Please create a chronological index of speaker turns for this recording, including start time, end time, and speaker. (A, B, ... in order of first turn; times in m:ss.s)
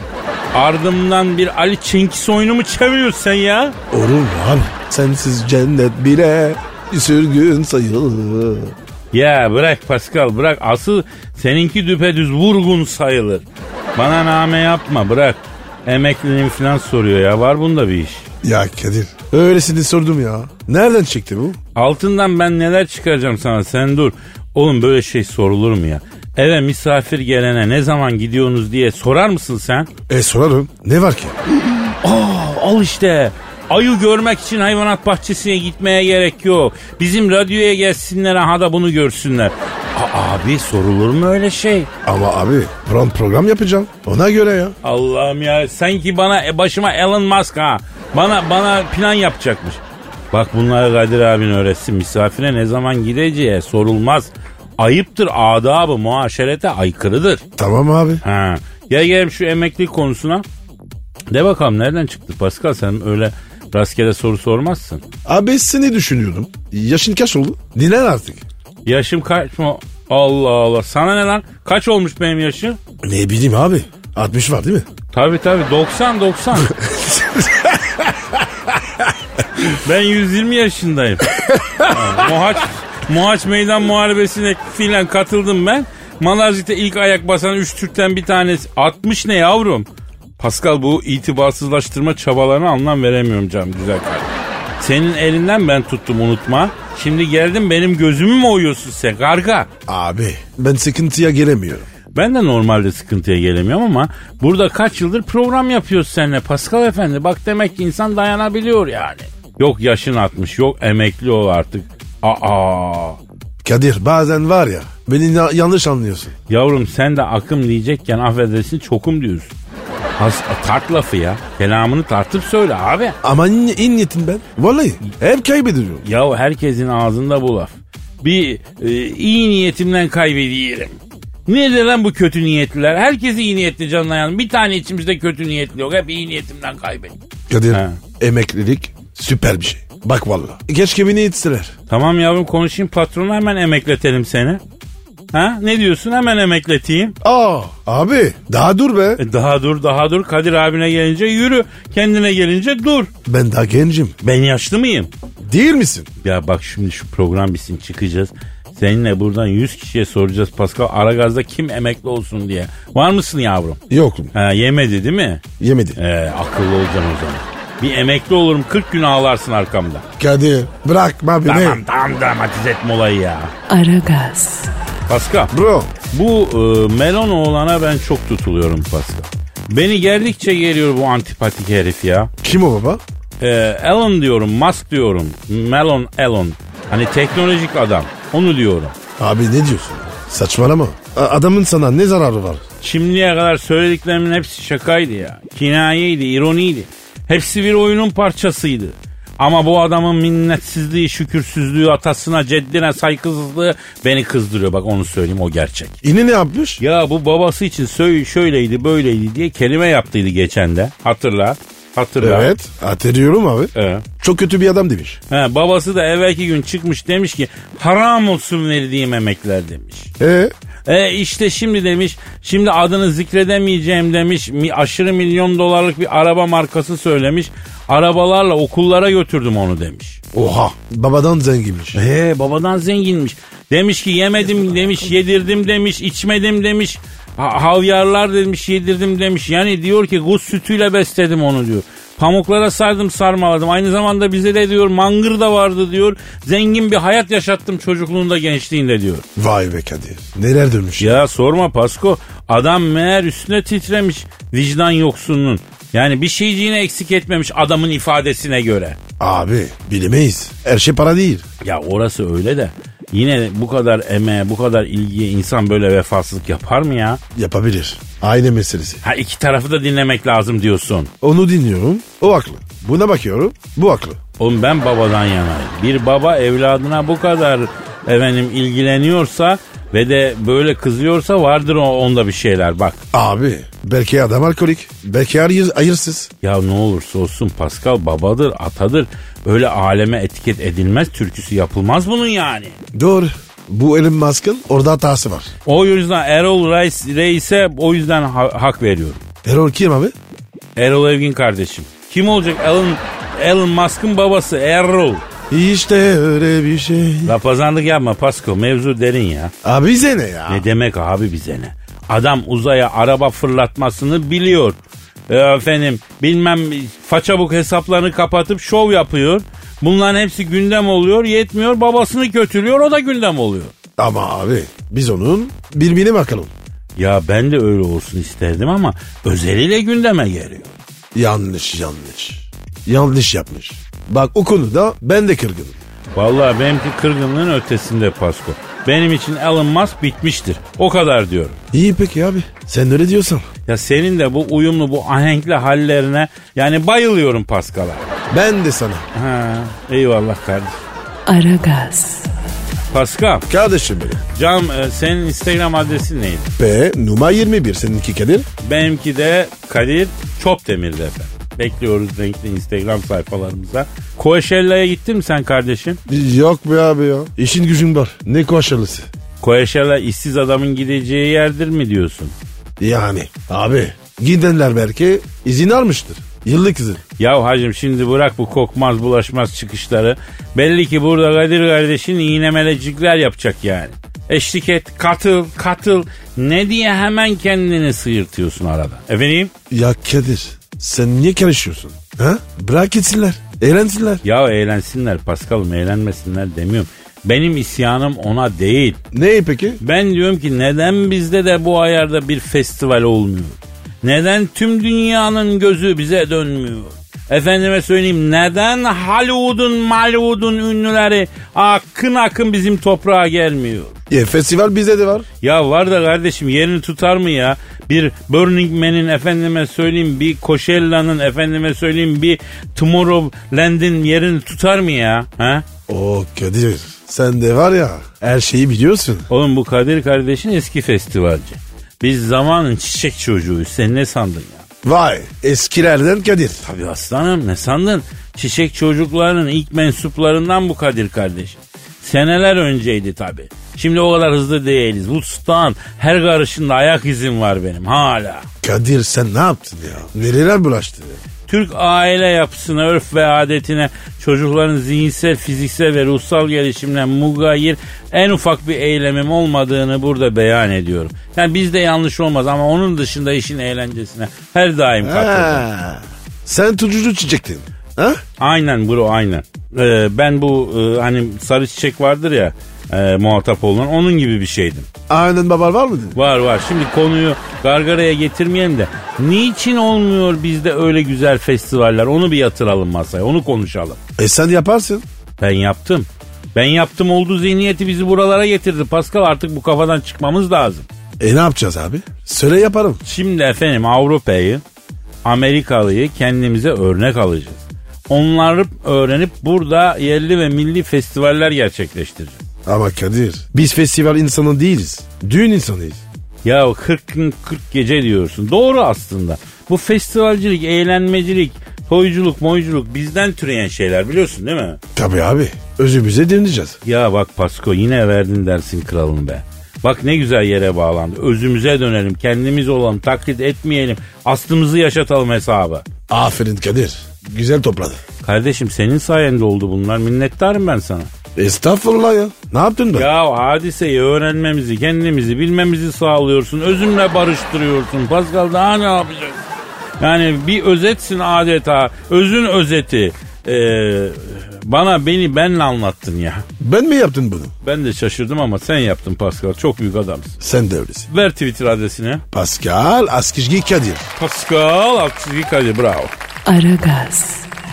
0:00.5-0:03.8 A
0:03.9-0:08.8 B
0:09.1-0:13.4 A
0:14.0-0:18.2 A
0:18.4-0:21.6 B
0:21.8-0:29.9 A
0:30.1-0:31.4 B
0:31.6-0:41.9 A
0:42.0-0:44.8 B
0:44.8-0:57.4 A
0:57.6-0:58.2 B
0:58.2-1:00.4 A
1:01.3-1:05.0 A
1:05.2-1:08.4 B
1:08.9-1:12.8 A
1:13.0-1:14.9 B
1:15.1-1:16.8 A
1:16.8-1:18.1 B
1:19.6-1:29.9 A
1:21.4-1:22.0 B
1:30.4-1:39.7 A
1:39.9-1:41.9 B
1:42.1-1:53.2 A
1:53.6-1:56.3 B
1:56.5-1:59.5 A
2:00.2-2:03.2 A
2:03.2-2:06.1 B
2:06.0-2:17.2 A
2:17.5-2:21.7 B
2:17.7-2:18.0 A
2:21.9-2:24.6 A
2:25.3-2:27.2 A
2:27.2-2:29.2 B
2:29.2-2:33.1 A
2:33.3-2:34.2 B
2:34.2-2:35.1 A
2:35.4-2:36.1 B
2:36.2-2:43.8 A
2:43.9-2:44.3 B
2:44.3-2:45.4 A
2:45.6-2:46.0 B
2:46.0-2:50.0 A
2:50.2-2:51.8 B
2:51.4-2:53.5 A
2:53.7-2:54.7 C
2:55.1-2:55.5 A
2:55.5-2:55.9 B
2:56.1-3:02.3 A
3:02.4-3:03.0 B
3:03.4-3:09.0 A
3:09.2-3:12.6 B
3:12.8-3:26.0 A
3:26.0-3:26.8 B
3:26.8-3:32.5 A
3:32.2-3:35.2 B
3:33.8-3:34.0 A
3:35.3-3:40.1 A
3:40.2-3:40.5 B
3:40.9-3:50.2 A
3:50.3-3:52.0 B
3:51.9-4:09.2 A
4:09.4-4:11.2 B
4:11.0-4:19.0 A
4:19.2-4:21.5 B
4:21.6-4:27.2 A
4:27.4-4:29.0 B
4:29.0-4:31.1 A
4:31.2-4:34.2 B
4:34.4-4:43.0 A
4:43.1-4:46.3 B
4:46.4-4:52.8 A
4:52.9-4:55.5 B
4:55.7-4:59.2 A
4:59.4-5:00.1 B
5:00.8-5:05.2 A
5:05.5-5:07.3 B
5:07.3-5:09.5 A
5:09.6-5:10.7 B
5:10.5-5:14.8 A
5:15.3-5:23.7 A
5:24.0-5:26.5 B
5:27.0-5:30.7 A
5:31.1-5:35.8 B
5:36.2-5:41.6 A
5:41.7-5:43.5 B
5:43.7-5:48.1 A
5:48.3-5:49.1 B
5:49.1-5:50.8 A
5:51.3-5:52.3 C
5:52.9-5:53.5 A
5:53.5-5:54.2 B
5:54.3-5:56.5 A
5:56.6-5:58.5 B
5:58.6-6:06.0 A
6:06.1-6:09.1 B
6:09.4-6:12.3 A
6:12.8-6:17.0 B
6:17.2-6:29.5 A
6:29.7-6:34.2 B
6:34.2-6:39.0 A
6:39.1-6:39.8 B
6:39.8-6:54.0 A
6:54.1-6:55.3 B
6:55.4-7:05.6 A
7:05.9-7:09.3 B
7:09.3-7:14.6 A
7:14.8-7:16.6 B
7:16.6-7:28.5 A
7:28.6-7:31.2 B
7:31.5-7:45.6 A
7:45.0-7:48.2 B
7:48.4-7:54.9 A
7:55.1-7:56.2 B
7:56.2-8:04.0 A
8:04.2-8:05.0 B
8:05.4-8:10.9 A
8:11.2-8:13.0 B
8:13.0-8:14.6 A
8:15.2-8:22.4 A
8:22.7-8:26.0 B
8:26.4-8:34.8 A
8:35.0-8:36.8 B
8:36.8-8:45.8 A
8:46.1-8:48.0 B
8:48.2-8:51.1 A
8:51.4-8:53.1 B
8:53.0-8:59.4 A
9:00.0-9:06.5 A
9:06.6-9:07.5 B
9:07.6-9:10.4 A
9:10.4-9:11.1 B
9:11.1-9:12.2 A
9:12.3-9:14.1 B
9:14.2-9:16.1 A
9:16.5-9:17.5 C